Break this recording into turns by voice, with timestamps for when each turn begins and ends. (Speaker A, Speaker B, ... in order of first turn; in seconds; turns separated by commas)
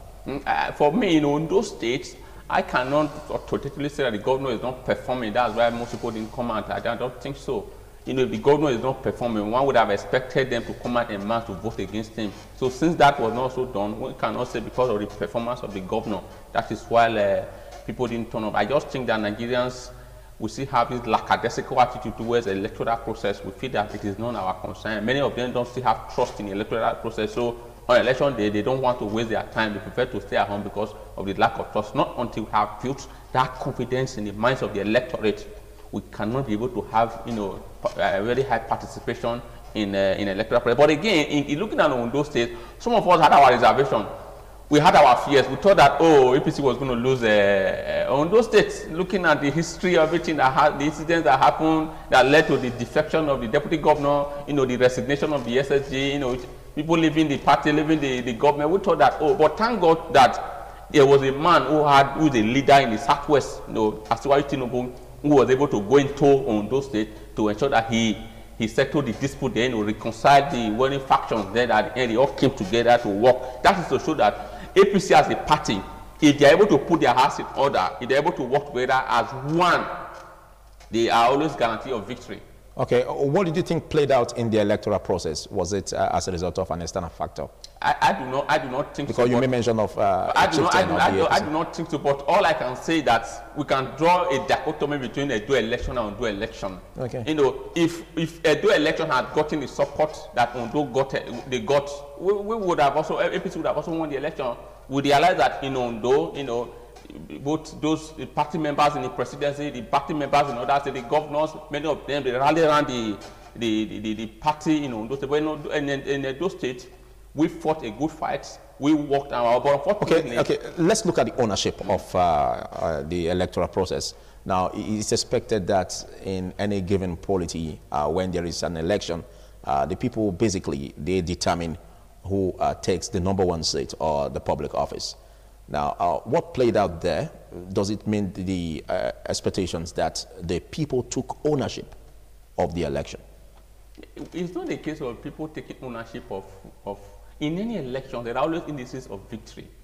Speaker A: 0.3-44.1, Speaker A: 44.7-79.9, Speaker A: 80.9-82.4, Speaker B: 82.8-87.5, Speaker A: 87.8-89.5, Speaker B: 89.1-91.5, Speaker A: 90.3-120.5, Speaker B: 97.0-97.3, Speaker B: 120.0-135.2, Speaker B: 135.7-142.0, Speaker B: 142.6-143.2, Speaker A: 144.2-149.7